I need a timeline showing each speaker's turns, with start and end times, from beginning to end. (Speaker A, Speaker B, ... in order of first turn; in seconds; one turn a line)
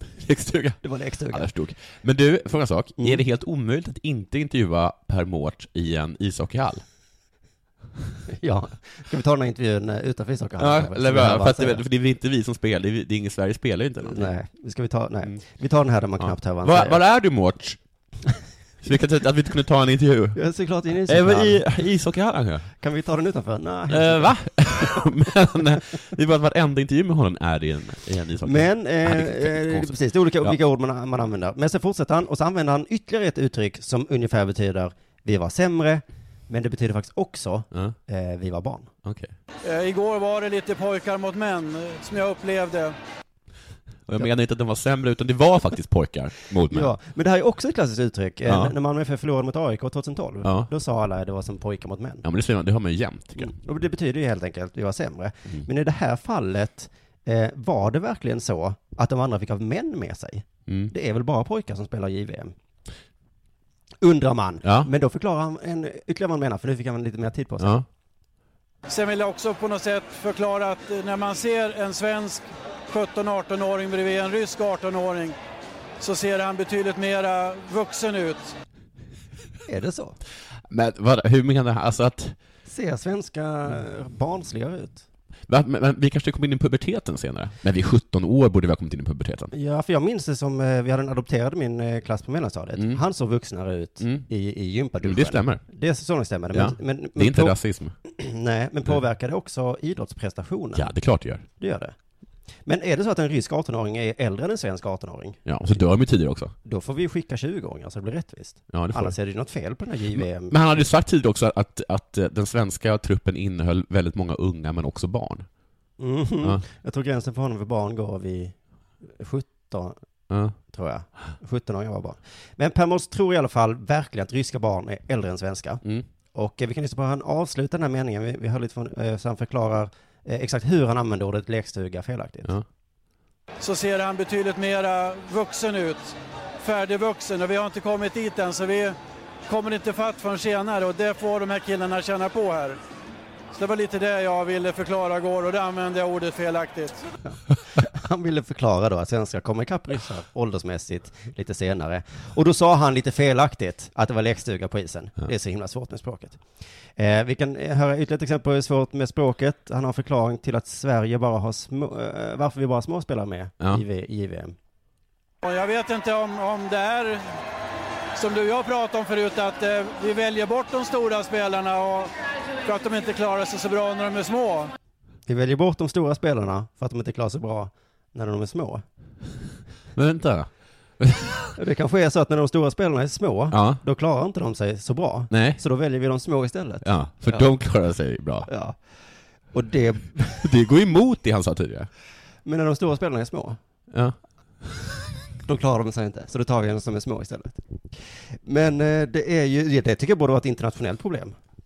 Speaker A: 0.2-6.8
Speaker B: 0.8-1.5
Speaker B: 8.4-11.8
Speaker A: 10.6-14.3
Speaker B: 14.0-17.0
Speaker A: 16.2-17.8
Speaker A: 18.8-20.4
Speaker B: 20.3-21.6
Speaker A: 20.9-22.7
Speaker B: 22.8-24.3
Speaker A: 23.9-30.6
Speaker B: 28.4-38.9
Speaker A: 39.0-39.3
Speaker C: 39.6-43.0
Speaker A: 44.0-46.9
Speaker B: 46.7-52.2
Speaker A: 48.5-48.7
Speaker A: 50.4-50.7
Speaker A: 52.2-53.5
Speaker B: 53.4-62.5
Speaker A: 60.7-60.9
Speaker B: 64.0-67.8
Speaker A: 64.6-64.9
Speaker A: 67.6-67.8
Speaker C: 68.9-75.3
Speaker C: 76.0-78.5
Speaker B: 79.7-80.2
Speaker A: 80.7-82.4
Speaker B: 82.7-85.0
Speaker A: 85.5-89.5
Speaker B: 89.5-100.9
Speaker A: 92.8-93.0
Speaker A: 94.0-94.3
Speaker A: 95.0-95.6
Speaker A: 96.5-97.9
Speaker A: 100.7-101.5
Speaker B: 101.6-101.9
Speaker B: 102.7-105.4
Speaker A: 105.5-106.5
Speaker B: 106.6-110.6
Speaker A: 108.7-109.2
Speaker A: 110.1-115.5
Speaker B: 116.0-120.0
Speaker A: 120.3-120.5
Speaker B: 120.7-125.8
Speaker B: 126.3-132.5
Speaker C: 133.6-138.9
Speaker C: 139.5-142.8
Speaker C: 143.5-147.0
Speaker B: 147.2-156.4
Speaker B: 157.0-164.5
Speaker C: 165.4-167.2
Speaker C: 168.2-172.1
Speaker C: 172.6-174.7
Speaker B: 175.3-178.8
Speaker A: 179.9-181.5
Speaker B: 181.6-187.5
Speaker A: 183.5-183.8
Speaker A: 185.3-185.6
Speaker A: 186.8-188.5
Speaker B: 188.5-188.8
Speaker B: 189.5-190.5
Speaker A: 190.4-191.9
Speaker B: 192.4-193.6
Speaker A: 193.9-194.8
Speaker B: 195.4-201.3